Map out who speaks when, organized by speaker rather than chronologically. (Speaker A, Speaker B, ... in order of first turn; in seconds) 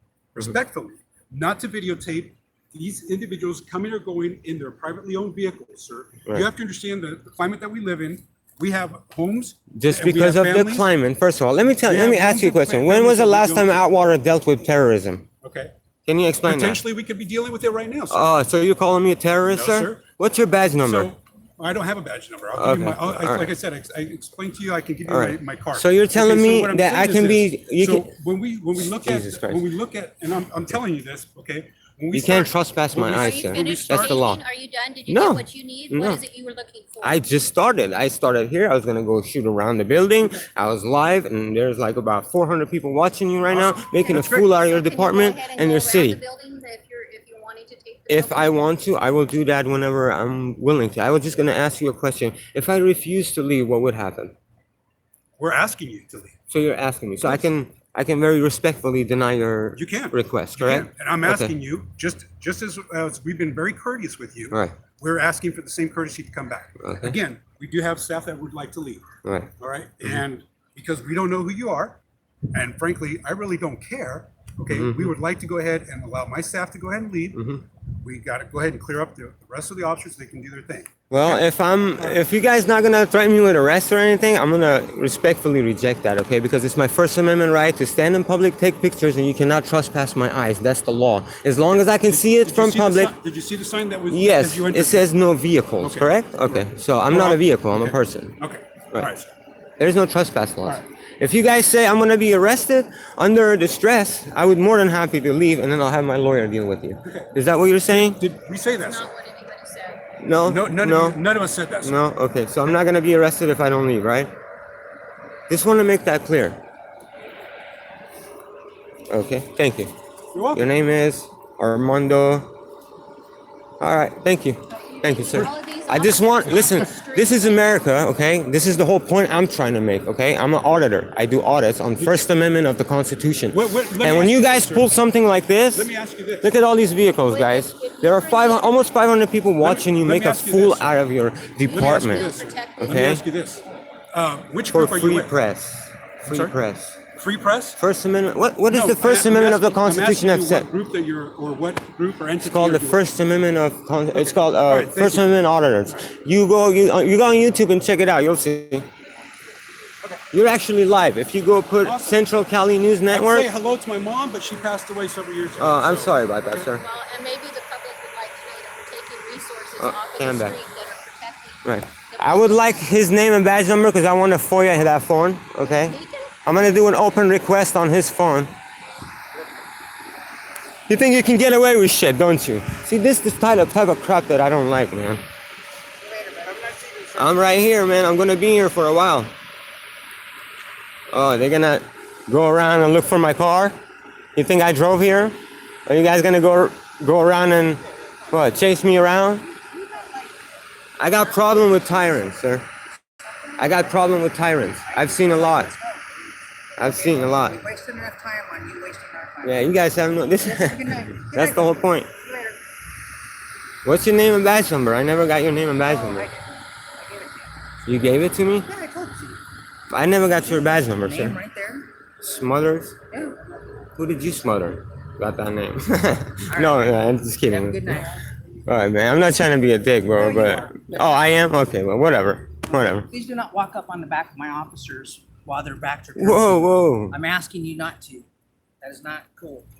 Speaker A: 0.3-10.9, 11.8-13.8, 15.4-15.7, 16.4-18.2, 19.4-20.0, 20.8-34.2, 43.5-44.5, 55.4-56.3, 59.8-72.0, 72.5-81.5, 82.0-82.2, 91.7-95.1, 95.8-99.3, 107.0-107.3, 107.9-109.1, 110.4-112.0, 120.3-120.7, 126.5-126.8, 132.0-132.2, 133.5-134.9, 135.7-136.5, 139.6-141.0, 141.7-145.3, 146.2-146.5, 147.1-147.8, 148.7-153.0, 154.1-155.4, 161.8-162.2, 163.1-166.7, 186.4-187.2
Speaker B: 9.7-15.2, 16.1-16.8, 18.1-21.1, 22.6-23.5, 25.1-28.1, 28.8-29.7, 32.1-34.4, 35.1-36.2, 37.0-46.2, 48.1-54.3, 56.5-61.5, 64.5-64.7, 66.8-67.2, 69.2-69.5, 74.7-75.1, 77.3-77.6, 81.1-93.1, 94.1-98.3, 99.8-108.2, 110.2-111.2, 111.8-114.3, 115.5-116.6, 119.1-119.9, 120.5-122.5, 123.8-135.9, 136.4-143.2, 144.7-147.0, 147.8-150.7, 152.4-158.8, 160.3-163.5, 165.6-166.8, 169.8-170.6, 171.6-178.5, 180.9-185.2, 187.1-189.3, 191.1-193.7, 194.3-199.5, 201.0-202.7, 203.6-205.7, 206.8-207.6, 209.4-212.1, 213.8-216.3, 217.8-218.7, 219.9-221.4, 222.2-222.9, 223.9-228.1, 228.6-233.1, 236.2-237.2
Speaker C: 33.1-37.2, 44.3-48.7, 108.8-110.0, 124.9-127.7, 137.3-138.9, 141.7-143.1, 166.7-172.7, 175.6-176.4
Speaker D: 186.0-186.7, 199.5-200.4, 201.4-201.9, 203.2-209.8, 210.3-212.6, 215.8-217.8, 218.6-219.4, 220.6-221.9, 223.1-223.4, 226.5-228.3, 230.1-231.3, 233.1-238.3, 238.8-239.7